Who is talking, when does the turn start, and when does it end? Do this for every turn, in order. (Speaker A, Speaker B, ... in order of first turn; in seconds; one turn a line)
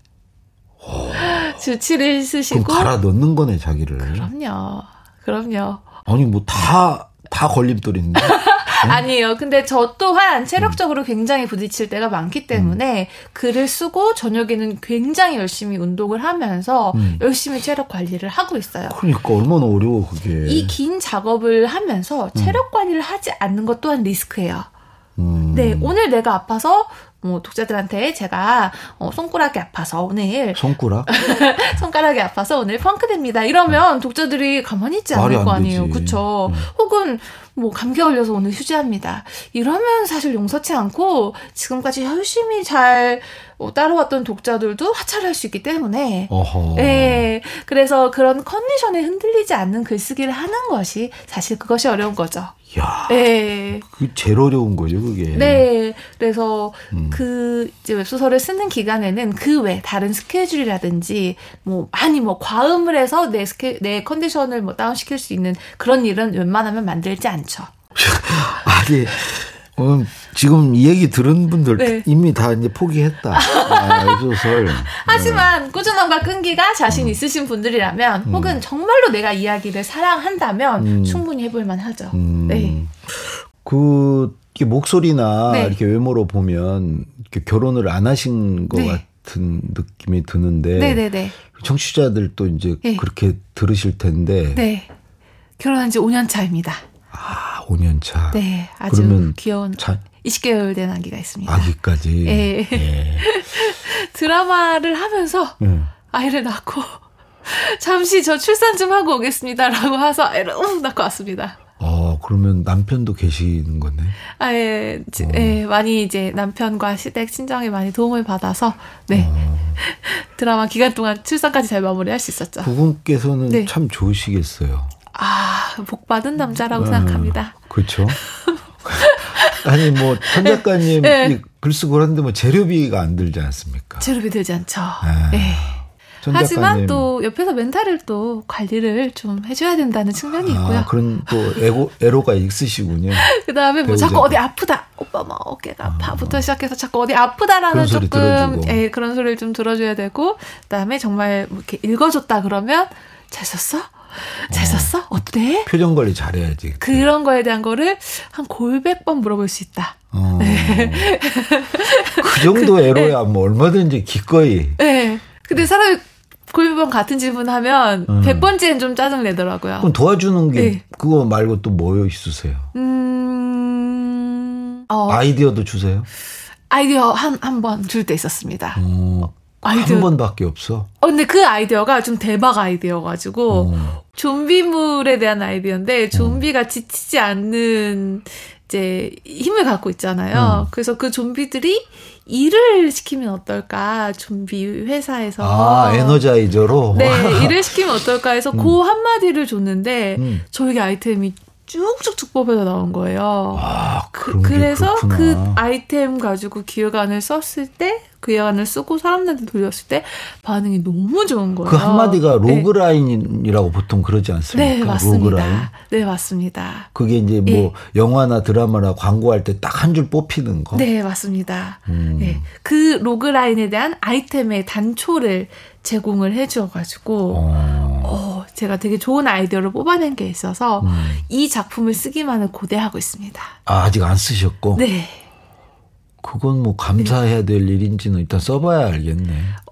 Speaker A: 0.8-1.5
Speaker B: 1.1-2.9
Speaker A: 2.5-4.3
Speaker B: 4.0-5.8
Speaker A: 6.0-9.0
Speaker B: 8.2-19.0
Speaker A: 16.9-17.2
Speaker A: 18.9-20.7
Speaker B: 20.4-24.7
Speaker A: 22.3-22.6
Speaker A: 25.2-25.9
Speaker B: 25.5-52.5
Speaker A: 30.5-31.1
Speaker A: 35.1-36.7
Speaker A: 46.3-47.3
Speaker A: 52.7-53.2
Speaker B: 53.1-53.8
Speaker A: 53.8-55.6
Speaker B: 55.3-67.7
Speaker A: 56.9-57.2
Speaker A: 67.9-75.5
Speaker B: 71.8-72.0
Speaker B: 73.3-82.8
Speaker A: 76.9-77.2
Speaker A: 78.2-78.6
Speaker A: 80.8-81.2
Speaker A: 82.1-82.9
Speaker A: 83.6-94.6
Speaker B: 85.5-85.8
Speaker B: 88.7-89.0
Speaker B: 90.8-91.4
Speaker B: 94.5-94.9
Speaker B: 95.6-96.8
Speaker A: 97.1-100.0
Speaker B: 98.3-101.7
Speaker A: 101.5-103.3
Speaker B: 102.2-105.6
Speaker A: 105.6-105.9
Speaker B: 106.1-111.6
Speaker A: 111.8-114.2
Speaker B: 114.4-122.7
Speaker A: 115.2-115.6
Speaker A: 119.1-119.8
Speaker A: 122.6-124.9
Speaker B: 123.5-123.7
Speaker B: 125.1-127.5
Speaker A: 126.7-128.2
Speaker B: 128.3-131.4
Speaker A: 128.8-134.1
Speaker B: 134.0-135.8
Speaker A: 135.0-137.1
Speaker B: 136.3-141.6
Speaker A: 140.4-143.3
Speaker B: 143.2-155.7
Speaker A: 143.8-144.4
Speaker A: 145.8-146.4
Speaker A: 147.7-148.8
Speaker A: 154.5-154.9
Speaker A: 155.7-157.1
Speaker B: 156.8-163.1
Speaker A: 160.1-161.2
Speaker A: 162.2-164.8
Speaker B: 164.8-169.9
Speaker A: 168.1-168.5
Speaker A: 169.8-172.7
Speaker B: 170.5-170.8
Speaker B: 172.7-175.2
Speaker A: 175.1-176.1
Speaker B: 176.7-178.8
Speaker A: 178.8-180.9
Speaker B: 179.6-180.1
Speaker B: 181.0-196.2
Speaker A: 183.5-184.0
Speaker A: 186.1-186.4
Speaker A: 190.3-190.7
Speaker A: 195.4-197.7
Speaker B: 196.9-212.7
Speaker A: 200.2-200.4
Speaker A: 203.5-205.6
Speaker A: 211.6-215.7
Speaker B: 214.5-216.9
Speaker A: 216.9-220.9
Speaker B: 217.4-217.7
Speaker B: 220.7-227.4
Speaker A: 221.9-222.4
Speaker A: 227.3-228.2
Speaker B: 228.0-233.5
Speaker A: 230.8-231.2
Speaker A: 233.7-234.8
Speaker B: 234.7-235.2
Speaker A: 236.2-239.6